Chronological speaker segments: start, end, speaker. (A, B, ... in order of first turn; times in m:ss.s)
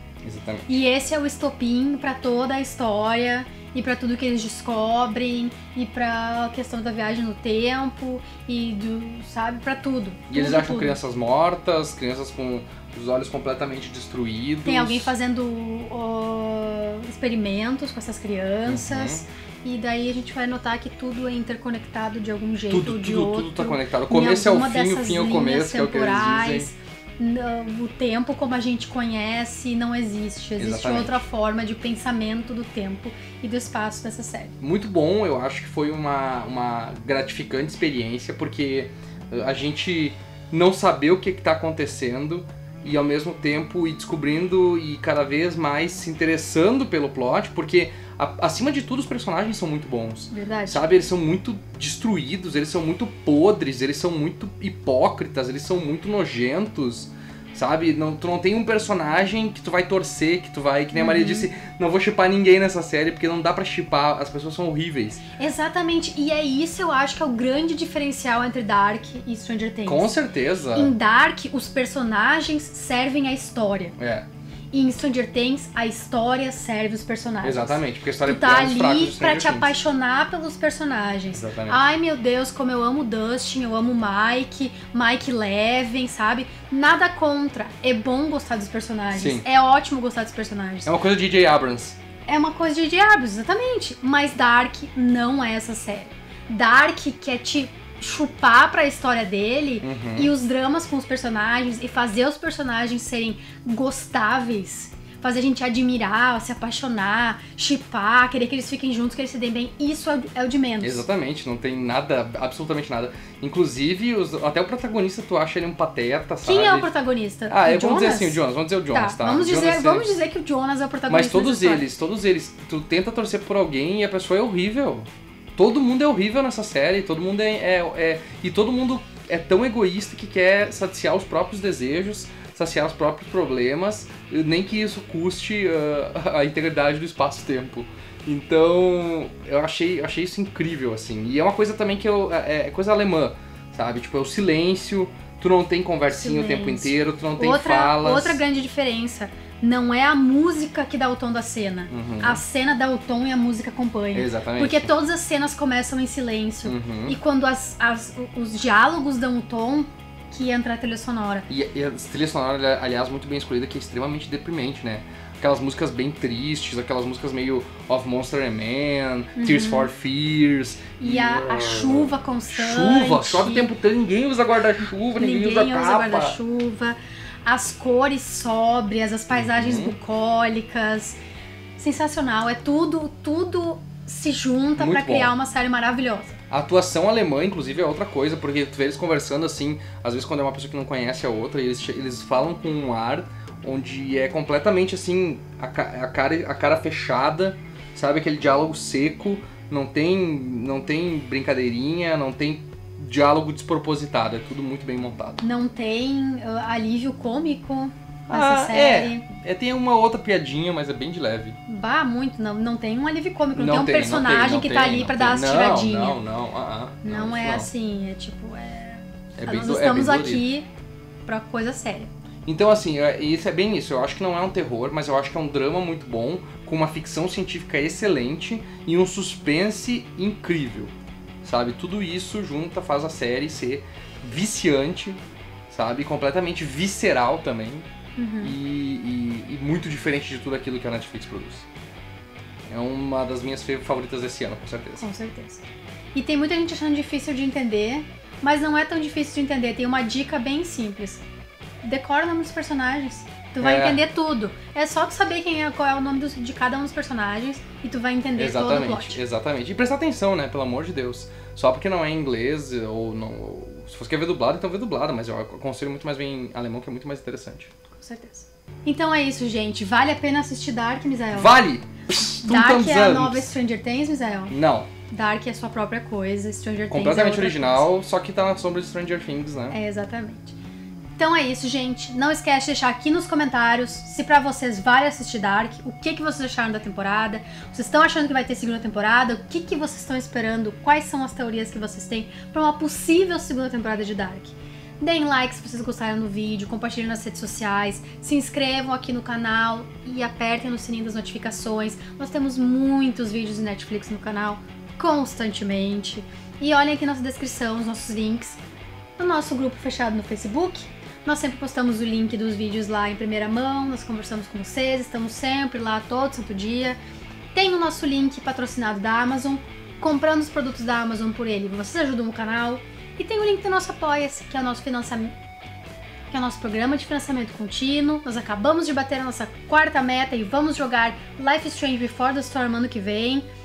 0:00.2-0:00.8 A
0:00.7-0:11.0 B
0:10.3-0:15.1 A
0:14.6-0:34.6 B
0:18.7-0:19.2 A
0:22.7-0:26.7 A
0:30.6-0:31.3 A
0:34.6-1:05.2 A
0:50.3-0:50.9 B
1:00.9-1:01.5 B
1:05.4-1:10.2 B
1:09.8-1:10.9 A
1:10.8-1:14.0 B
1:14.0-1:14.3 A
1:14.7-1:30.9 B
1:17.4-1:19.8 A
1:21.3-1:21.8 A
1:29.1-1:29.4 A
1:30.9-1:32.0 A
1:32.3-1:51.0 B
1:39.8-1:40.3 A
1:50.8-1:56.9 A
1:56.4-2:01.9 B
1:57.5-2:00.1 A
2:01.1-2:28.4 A
2:26.1-2:41.5 B
2:31.9-2:32.4 A
2:34.1-2:34.9 A
2:36.6-2:37.2 A
2:41.5-2:56.4 A
2:49.4-2:49.9 B
2:51.0-2:53.7 B
2:55.1-3:01.2 B
2:59.3-3:00.0 A
3:01.8-3:06.4 B
3:04.8-3:05.3 A
3:06.5-3:25.4 A
3:25.4-3:29.2 B
3:28.3-3:31.6 A
3:31.7-3:36.2 B
3:33.6-3:37.7 A
3:37.0-3:40.7 B
3:39.4-3:40.4 A
3:41.3-3:42.1 B
3:42.4-3:57.9 A
3:58.2-3:58.5 B
3:58.4-4:01.7 A
4:02.7-4:05.0 A
4:05.0-4:05.6 B
4:06.2-4:11.2 B
4:11.8-4:19.2 B
4:13.6-4:14.0 A
4:18.4-4:27.7 A
4:27.9-4:31.6 B
4:31.3-4:33.5 A
4:32.4-4:34.6 B
4:34.5-4:34.9 A
4:35.1-4:37.9 B
4:36.9-4:39.8 A
4:39.7-4:40.6 B
4:41.2-5:08.6 B
5:09.2-5:17.0 B
5:17.5-5:25.3 B
5:26.3-5:33.4 B